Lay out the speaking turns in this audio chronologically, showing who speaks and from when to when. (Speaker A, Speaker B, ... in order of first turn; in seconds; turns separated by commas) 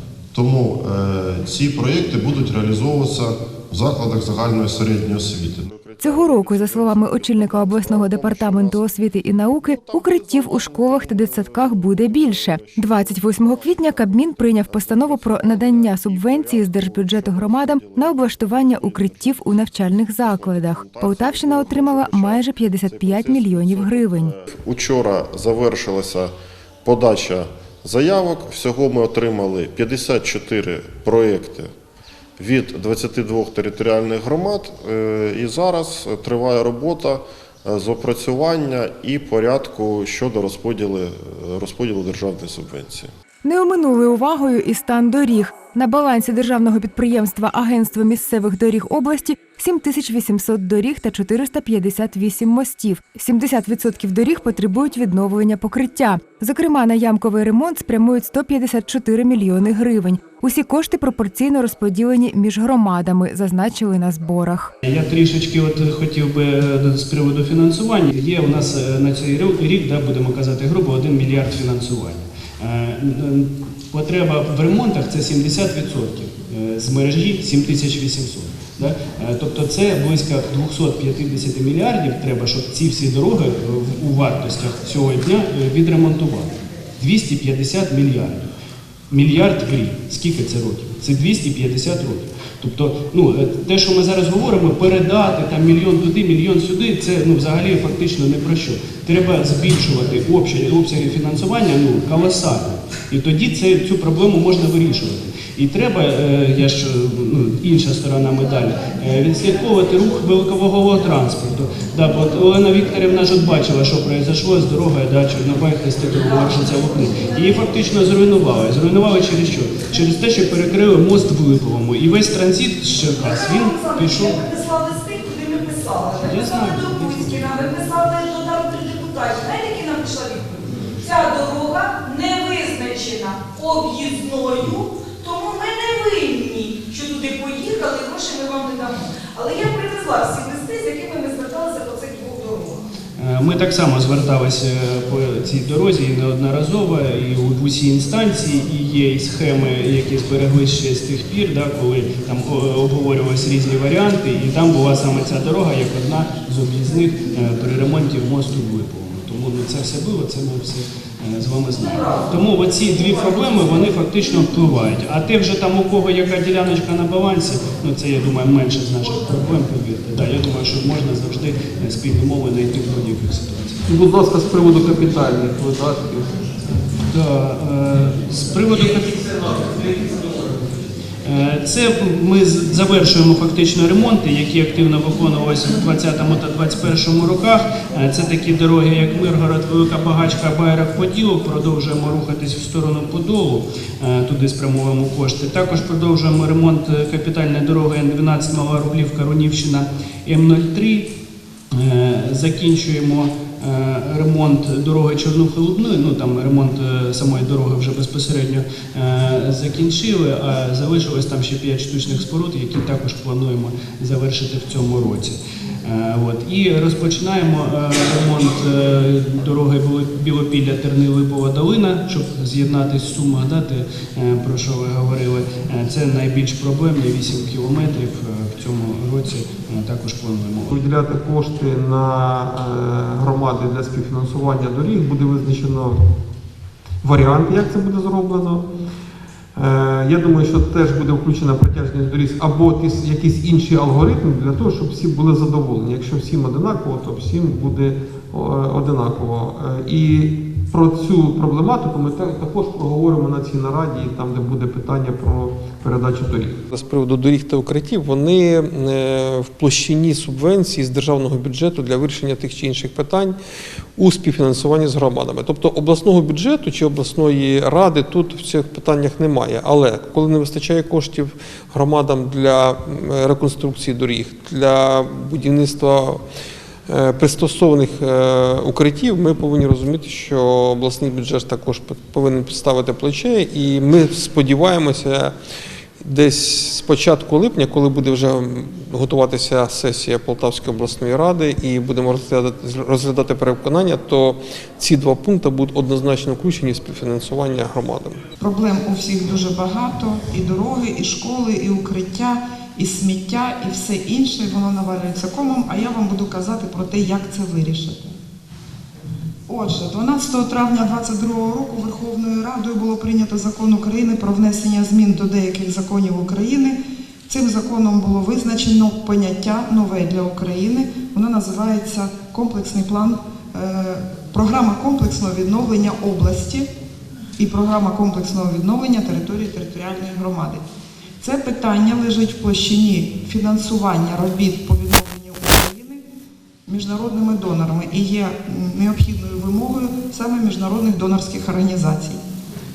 Speaker A: 0.3-8.9, Speaker B: 6.0-24.4, Speaker A: 9.5-26.3, Speaker A: 26.8-31.7, Speaker A: 32.4-43.1, Speaker B: 43.4-64.7, Speaker C: 64.8-88.5, Speaker C: 89.1-124.4, Speaker D: 116.5-117.3, Speaker D: 123.2-142.8, Speaker C: 126.2-127.4, Speaker C: 143.2-173.8, Speaker D: 161.8-163.8, Speaker E: 173.8-176.5, Speaker C: 176.9-179.9, Speaker E: 179.9-180.5, Speaker C: 181.2-201.1, Speaker C: 201.7-230.7, Speaker E: 230.7-236.0, Speaker E: 237.0-238.6, Speaker E: 239.5-256.6, Speaker F: 256.7-263.4, Speaker F: 264.0-276.2, Speaker F: 276.9-285.3, Speaker F: 286.0-298.2, Speaker G: 298.4-308.1, Speaker G: 309.5-316.8, Speaker G: 317.3-326.7, Speaker G: 327.4-330.6, Speaker G: 331.2-336.0, Speaker G: 336.6-342.2